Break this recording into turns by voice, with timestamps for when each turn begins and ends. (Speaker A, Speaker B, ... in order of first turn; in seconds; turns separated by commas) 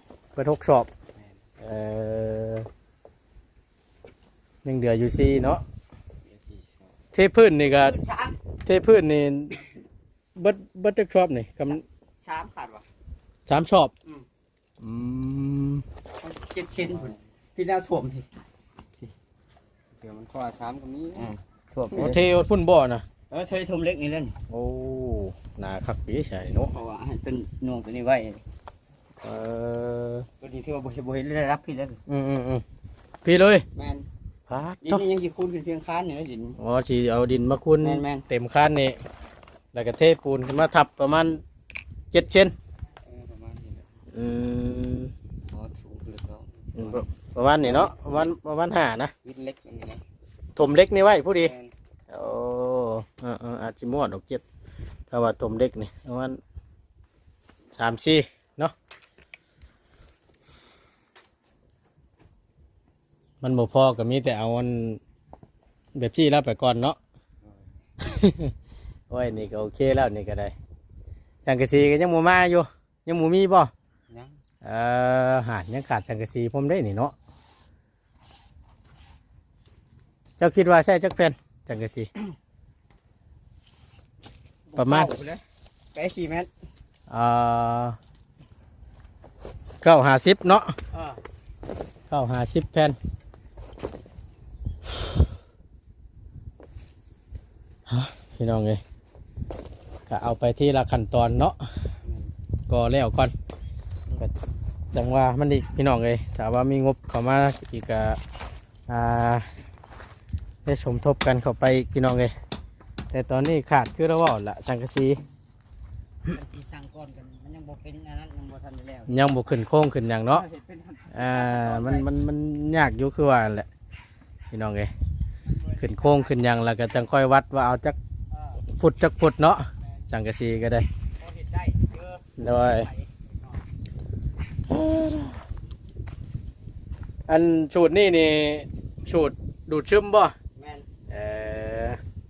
Speaker A: 0.3-0.9, Speaker B: 1.1-1.4, Speaker A: 1.6-2.7, Speaker A: 4.6-5.6, Speaker B: 6.2-7.0, Speaker A: 7.1-8.0, Speaker C: 7.8-8.4, Speaker A: 8.7-9.7, Speaker A: 10.3-11.8, Speaker C: 11.6-12.8, Speaker A: 13.5-13.9, Speaker A: 14.8-15.8, Speaker C: 16.2-18.3, Speaker B: 16.7-17.2, Speaker B: 19.9-21.3, Speaker C: 21.1-22.3, Speaker A: 21.9-23.0, Speaker C: 23.3-24.4, Speaker A: 24.5-26.7, Speaker C: 26.7-28.4, Speaker A: 29.2-30.3, Speaker C: 30.4-32.0, Speaker A: 32.1-32.6, Speaker A: 33.2-33.6, Speaker C: 33.7-34.1, Speaker A: 34.5-35.0, Speaker C: 34.8-36.6, Speaker A: 36.6-39.0, Speaker C: 37.8-38.2, Speaker A: 39.7-41.4, Speaker A: 42.1-42.5, Speaker B: 43.0-44.0, Speaker A: 44.1-45.1, Speaker B: 45.5-48.0, Speaker A: 46.8-49.1, Speaker B: 49.2-50.0, Speaker A: 50.5-51.5, Speaker B: 51.4-51.7, Speaker A: 52.1-54.4, Speaker A: 55.1-56.4, Speaker A: 57.7-58.7, Speaker A: 63.4-65.0, Speaker A: 65.9-67.0, Speaker B: 67.4-67.7, Speaker A: 68.0-68.5, Speaker A: 69.1-70.5, Speaker A: 71.4-73.7, Speaker B: 74.1-74.4, Speaker A: 74.6-77.1, Speaker A: 80.4-82.1, Speaker C: 84.7-85.4, Speaker A: 84.8-85.1, Speaker C: 85.9-86.5, Speaker A: 87.1-88.0, Speaker A: 89.8-90.7, Speaker C: 90.9-91.2, Speaker A: 92.1-93.0, Speaker A: 97.9-98.8, Speaker A: 100.1-101.6, Speaker B: 102.0-102.3, Speaker A: 102.7-103.3, Speaker A: 104.9-108.2, Speaker A: 108.9-109.5, Speaker A: 110.6-112.3, Speaker A: 113.1-115.2, Speaker C: 116.2-119.3, Speaker A: 119.1-120.5, Speaker C: 120.3-122.1, Speaker A: 121.1-123.7, Speaker A: 124.5-124.9, Speaker C: 125.5-126.4, Speaker A: 125.8-128.0, Speaker C: 128.3-128.6, Speaker A: 128.8-130.9, Speaker C: 131.2-133.6, Speaker A: 132.4-132.9, Speaker A: 134.7-135.4, Speaker A: 137.3-140.3, Speaker C: 140.6-140.9, Speaker A: 141.1-142.0